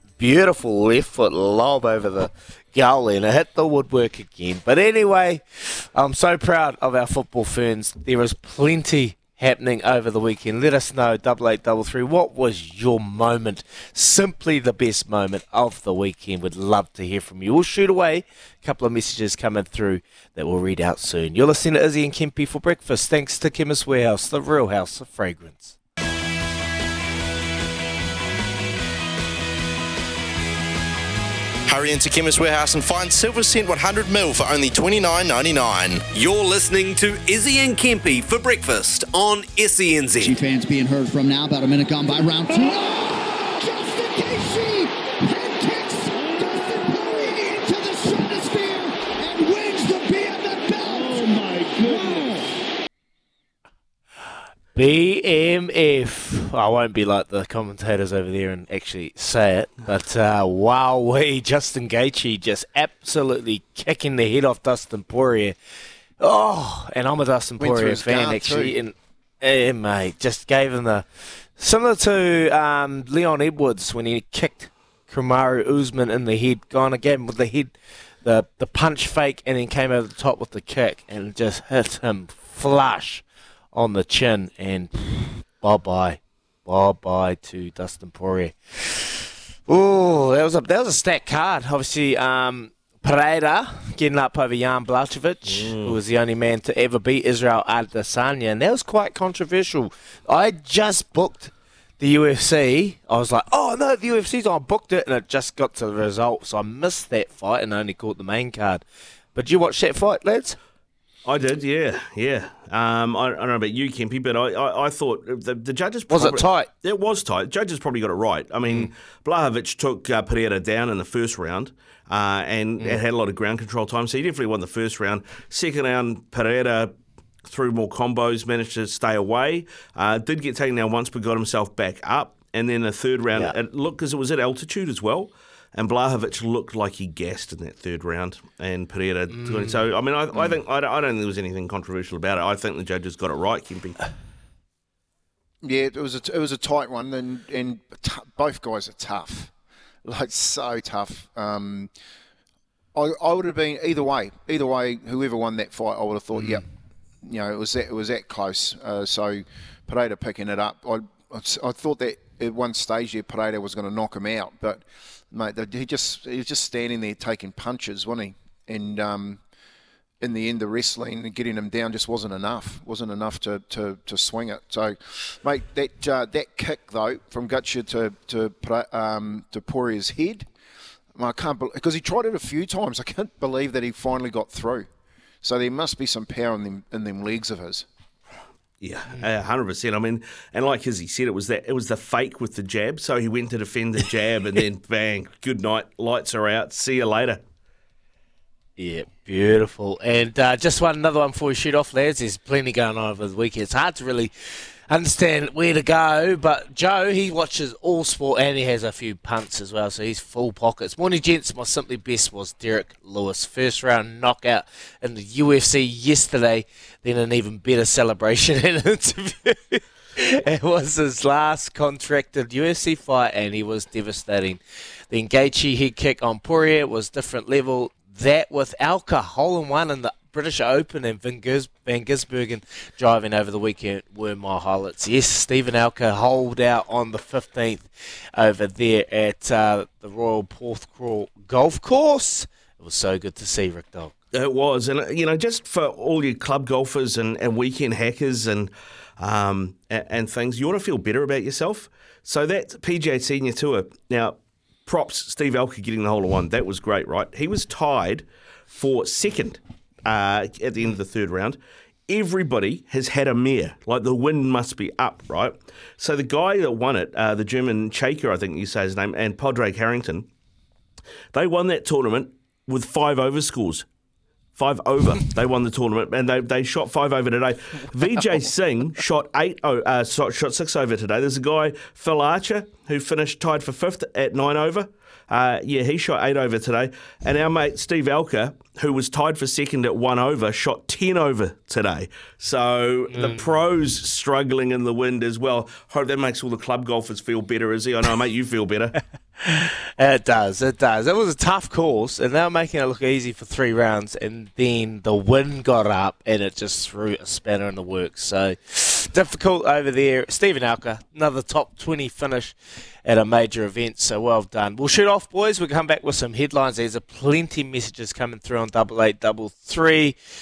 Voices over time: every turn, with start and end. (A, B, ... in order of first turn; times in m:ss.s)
0:00.2-0:25.8 A
0:31.7-0:36.0 B
0:36.1-0:40.4 C
0:40.2-0:52.5 D
0:54.7-1:05.6 A
1:06.2-1:48.8 A
1:07.6-1:08.8 E
1:35.5-1:36.0 F
1:49.3-1:50.6 A
1:51.2-2:06.9 F
1:56.1-1:56.7 A
2:07.4-2:24.0 F
2:19.3-2:19.8 A
2:25.6-2:29.5 E
2:30.0-2:31.9 E
2:32.9-2:36.6 E
2:37.2-2:49.4 E
2:50.2-3:00.5 E
3:01.1-3:04.9 E
3:05.4-3:07.9 E
3:08.8-3:17.4 F
3:18.8-3:24.3 A
3:24.9-3:44.6 A
3:45.1-4:04.1 A
4:04.3-4:30.3 F
4:31.3-4:33.8 F
4:34.6-4:59.0 F
4:53.1-4:53.6 A
4:59.4-5:20.2 A